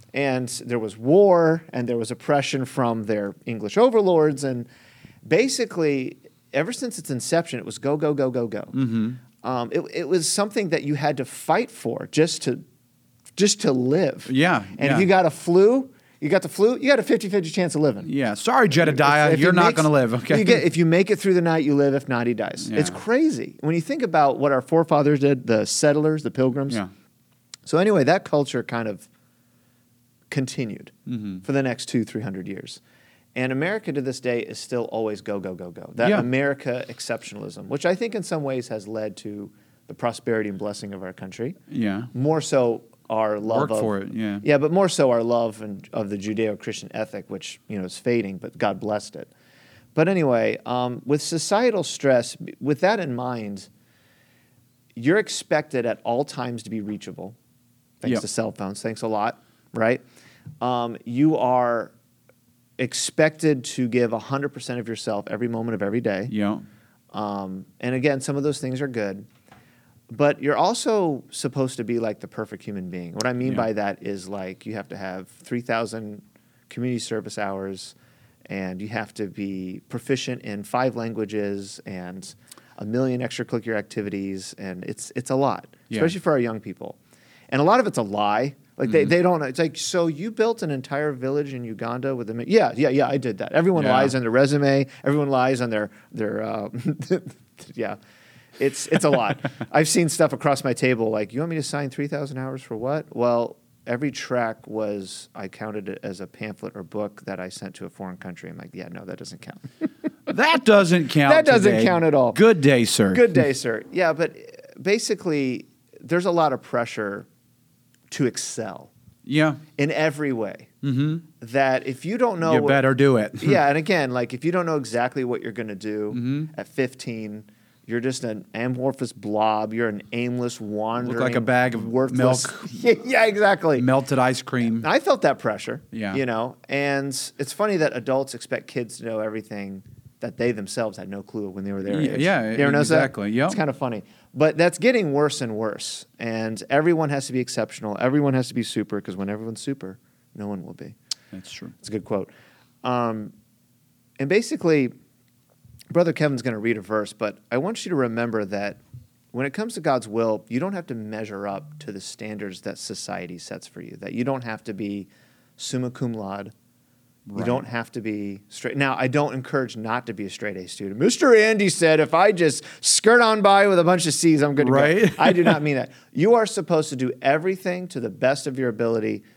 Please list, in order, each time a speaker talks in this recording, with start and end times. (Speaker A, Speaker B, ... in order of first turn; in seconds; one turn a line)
Speaker A: 0.1-4.7
Speaker A: 5.2-8.8
Speaker B: 8.7-9.2
Speaker A: 9.3-12.6
Speaker A: 13.4-18.1
Speaker B: 14.3-15.1
Speaker B: 18.0-20.6
Speaker A: 18.7-26.8
Speaker B: 22.6-23.0
Speaker A: 27.7-29.1
Speaker A: 30.3-32.8
Speaker B: 31.1-31.4
Speaker A: 33.4-41.6
Speaker B: 36.0-36.3
Speaker B: 41.7-42.1
Speaker A: 42.1-49.3
Speaker B: 43.5-44.4
Speaker A: 50.0-53.7
Speaker A: 55.0-57.4
Speaker A: 58.0-60.0
Speaker A: 60.6-61.9
Speaker A: 62.8-66.3
Speaker B: 66.3-66.6
Speaker A: 67.1-69.3
Speaker A: 70.1-78.0
Speaker A: 78.5-87.0
Speaker A: 87.5-98.0
Speaker B: 93.8-94.1
Speaker A: 98.6-109.7
Speaker B: 110.3-113.4
Speaker A: 111.2-112.4
Speaker A: 113.1-117.3
Speaker A: 118.1-118.9
Speaker B: 119.2-119.6
Speaker A: 119.8-120.7
Speaker B: 120.8-121.2
Speaker A: 121.4-122.8
Speaker B: 122.4-123.6
Speaker A: 123.4-133.9
Speaker B: 126.1-126.5
Speaker B: 131.0-132.7
Speaker B: 133.8-134.9
Speaker A: 134.7-150.9
Speaker B: 135.9-136.2
Speaker B: 141.9-143.6
Speaker B: 151.3-151.8
Speaker A: 151.8-152.3
Speaker A: 152.8-153.3
Speaker A: 154.2-154.9
Speaker A: 155.9-158.8
Speaker A: 159.3-166.5
Speaker B: 167.3-167.6
Speaker A: 167.3-179.2
Speaker B: 174.6-175.6